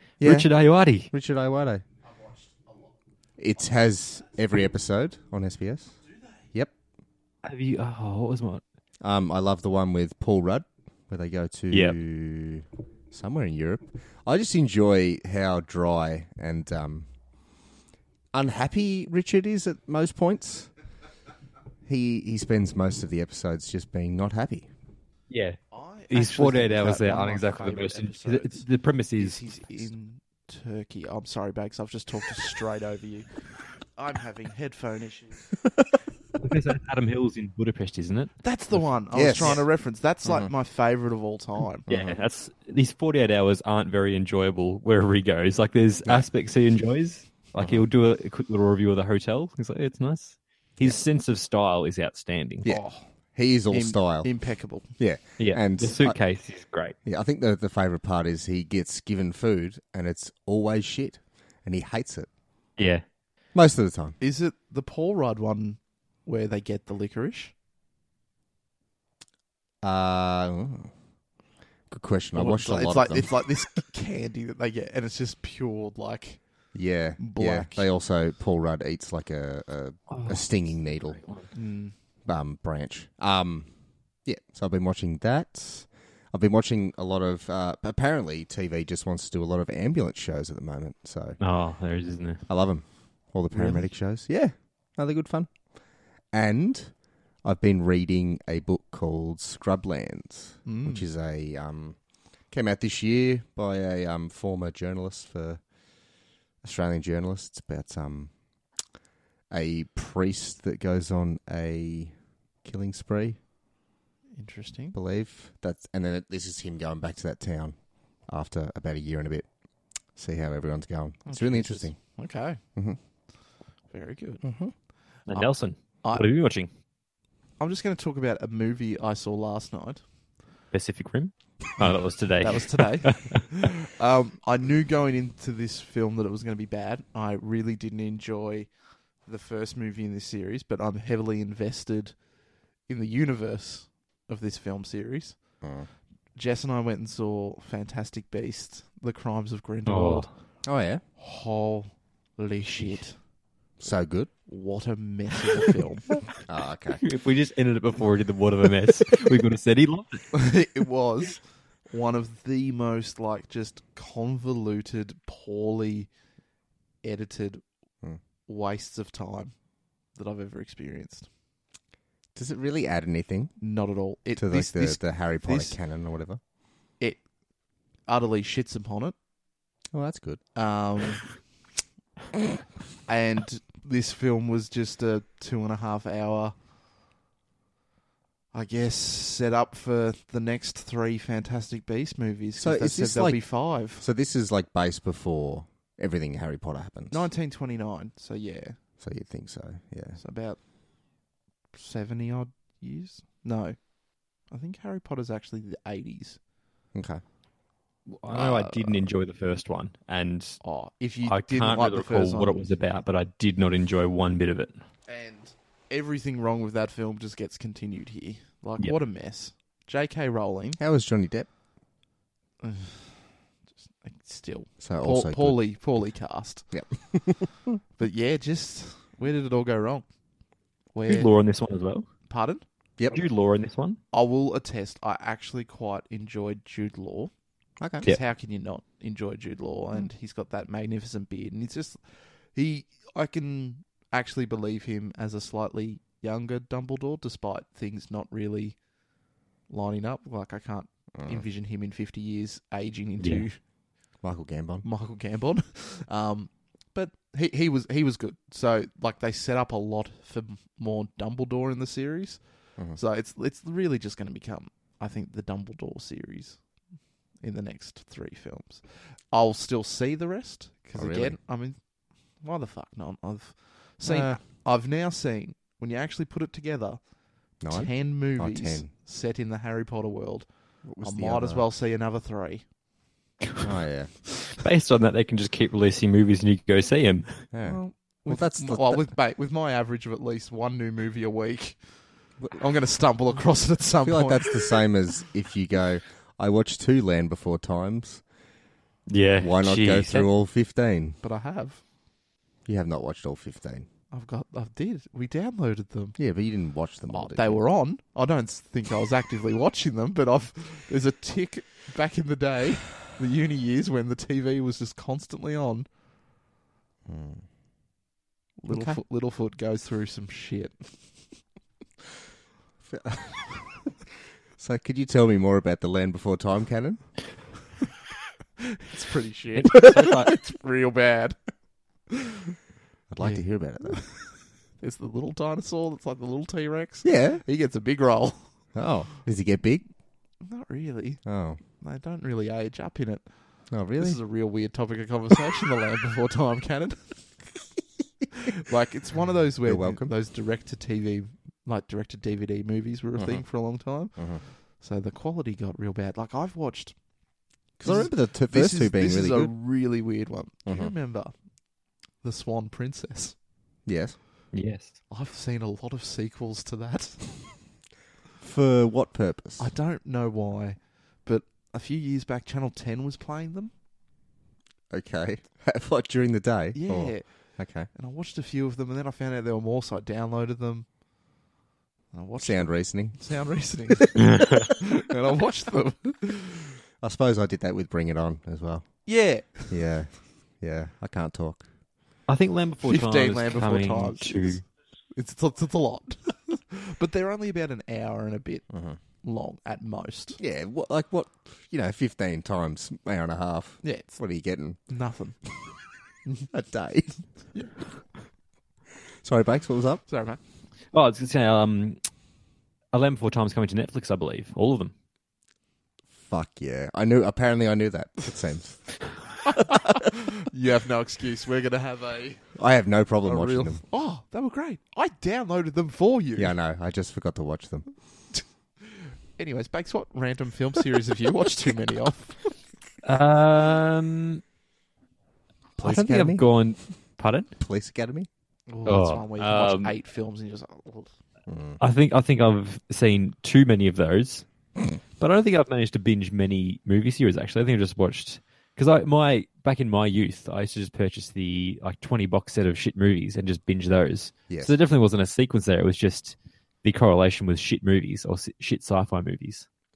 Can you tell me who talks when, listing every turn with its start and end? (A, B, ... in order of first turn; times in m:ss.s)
0:00.2-0:00.5 A
0:00.2-0:01.1 B
0:01.1-0:01.8 A
0:02.0-0:02.9 C
0:03.4-0:06.0 A
0:07.4-0:08.6 B
0:09.0-0:17.1 A
0:18.3-0:20.7 A
0:21.9-0:24.7 A
0:25.3-0:25.6 B
0:25.7-0:28.6 C
0:26.1-0:29.4 B
0:29.2-0:33.3 C
0:34.0-0:35.5 C
0:36.4-0:39.6 B
0:38.4-0:41.8 C
0:39.1-0:39.6 A
0:40.2-0:40.5 A
0:41.9-0:42.2 A
0:41.9-0:52.7 B
0:47.6-0:47.8 A
0:52.6-0:54.3 A
0:52.7-0:53.1 C
0:53.7-0:54.9 C
0:55.0-0:56.2 A
0:55.4-0:57.0 B
0:57.0-1:02.3 A
1:02.8-1:03.0 B
1:03.5-1:04.2 A
1:04.2-1:07.5 C
1:09.8-1:10.9 A
1:11.9-1:13.6 A
1:12.3-1:16.4 C
1:16.7-1:21.2 A
1:17.2-1:17.9 C
1:20.1-1:20.5 B
1:21.2-1:21.5 B
1:21.5-1:22.0 C
1:22.2-1:23.7 A
1:24.2-1:31.4 A
1:31.4-1:32.5 B
1:32.5-1:35.6 A
1:33.5-1:33.9 C
1:36.3-1:42.0 A
1:40.6-1:41.0 C
1:42.5-1:45.6 A
1:46.6-1:48.3 A
1:49.5-1:52.1 A
1:52.6-1:53.4 A
1:54.4-1:55.0 C
1:54.9-1:59.5 A
2:00.2-2:02.0 A
2:01.3-2:02.6 C
2:03.9-2:04.4 C
2:04.4-2:04.7 A
2:05.3-2:06.7 B
2:07.6-2:10.0 C
2:10.7-2:13.5 B
2:12.4-2:18.7 C
2:19.3-2:22.2 C
2:22.9-2:25.4 C
2:25.6-2:25.9 A
2:26.4-2:30.3 C
2:29.9-2:30.3 B
2:30.6-2:31.0 A
2:31.2-2:33.2 C
2:33.8-2:34.3 A
2:34.5-2:36.2 C
2:36.5-2:37.0 A
2:37.0-2:40.3 B
2:40.3-2:46.1 C
2:47.0-2:47.6 C
2:48.5-2:49.5 C
2:50.1-2:51.3 C
2:52.4-2:53.6 A
2:53.6-2:55.8 C
2:54.4-2:56.4 A
2:58.1-2:59.2 C
2:59.9-3:00.4 A
3:00.6-3:01.3 C
3:03.1-3:06.5 C
3:08.5-3:14.0 C
3:12.6-3:17.3 A
3:17.1-3:18.8 C
3:19.0-3:20.2 A
3:20.2-3:20.6 C
3:21.8-3:23.8 C
3:24.5-3:26.4 C
3:26.9-3:27.2 A
3:28.1-3:30.6 B
3:28.3-3:29.1 C
3:30.6-3:32.7 C
3:31.2-3:34.7 B
3:35.1-3:40.8 C
3:40.8-3:41.5 A
3:42.6-3:43.2 C
3:44.0-3:46.7 C
3:44.8-3:45.6 A
3:46.7-3:47.8 A
3:48.0-3:50.0 C
3:50.9-3:51.3 C
3:51.1-3:52.1 B
3:52.3-3:52.6 C
3:53.1-3:54.0 B
3:54.1-3:57.3 C
3:57.8-3:58.1 A
3:58.0-4:02.0 C
4:02.5-4:08.8 C
4:09.7-4:13.6 C
4:11.2-4:11.4 A
4:13.2-4:13.4 B
4:14.2-4:14.9 A
4:14.8-4:22.4 C
4:22.9-4:26.6 C
4:27.4-4:31.8 C
4:31.0-4:31.4 A
4:32.4-4:37.0 C
4:34.0-4:34.4 A
4:37.6-4:38.9 A
4:37.7-4:40.5 C
4:40.9-4:41.6 A
4:41.0-4:42.6 C
4:43.6-4:44.1 A
4:44.5-4:47.3 B
4:47.5-4:49.1 A
4:47.6-4:51.8 C
4:52.5-4:54.8 C
4:54.0-4:58.2 A
4:59.1-5:00.3 B
4:59.4-5:01.2 A
5:01.2-5:01.8 C
5:02.7-5:03.9 A
5:04.1-5:06.2 C
5:06.2-5:07.6 A
5:07.1-5:15.9 C
5:17.1-5:17.4 A
5:18.6-5:20.9 C
5:18.7-5:19.0 A
5:22.8-5:23.9 A
5:24.6-5:27.1 A
5:28.6-5:31.4 C
5:29.6-5:30.3 B
5:32.1-5:32.6 C
5:33.1-5:34.0 A
5:33.2-5:34.2 C
5:34.8-5:38.4 C
5:37.0-5:37.4 A
5:38.7-5:39.8 A
5:40.4-5:41.2 C
5:41.2-5:41.6 A
5:41.8-5:43.3 C
5:43.7-5:44.2 A
5:44.0-5:47.3 C
5:48.3-5:57.0 C
5:49.7-5:50.1 A
5:53.2-5:53.4 A
5:54.2-5:54.4 A
5:57.8-6:01.3 C
5:57.8-5:59.5 A
6:00.7-6:00.9 A
6:02.2-6:03.4 C
6:03.9-6:04.2 A
6:04.5-6:05.0 B
6:05.1-6:07.5 C
6:08.4-6:09.7 A
6:09.6-6:13.7 C
6:14.9-6:17.9 A
6:16.7-6:17.3 C
6:17.9-6:20.9 C
6:22.1-6:26.8 C
6:22.4-6:23.2 A
6:24.2-6:24.7 B
6:27.0-6:29.1 A
6:29.1-6:29.8 C
6:29.7-6:31.7 A
6:32.3-6:34.6 B
6:32.8-6:38.7 C
6:38.7-6:39.0 A
6:39.2-6:40.4 C
6:40.4-6:44.8 A
6:43.8-6:44.2 C
6:44.9-6:45.7 C
6:46.5-6:47.2 A
6:49.2-6:50.0 A
6:50.1-6:50.4 C
6:50.9-6:52.0 B
6:52.9-6:54.9 B
6:56.2-6:59.0 A
6:59.5-7:02.5 C
7:02.6-7:03.8 A
7:03.2-7:06.6 C
7:06.4-7:07.9 A
7:08.4-7:12.4 C
7:13.0-7:14.4 B
7:15.8-7:16.4 A
7:15.8-7:17.5 B
7:17.6-7:18.3 A
7:18.7-7:21.1 C
7:18.9-7:20.0 B
7:21.5-7:21.8 A
7:21.8-7:24.5 B
7:25.2-7:39.7 B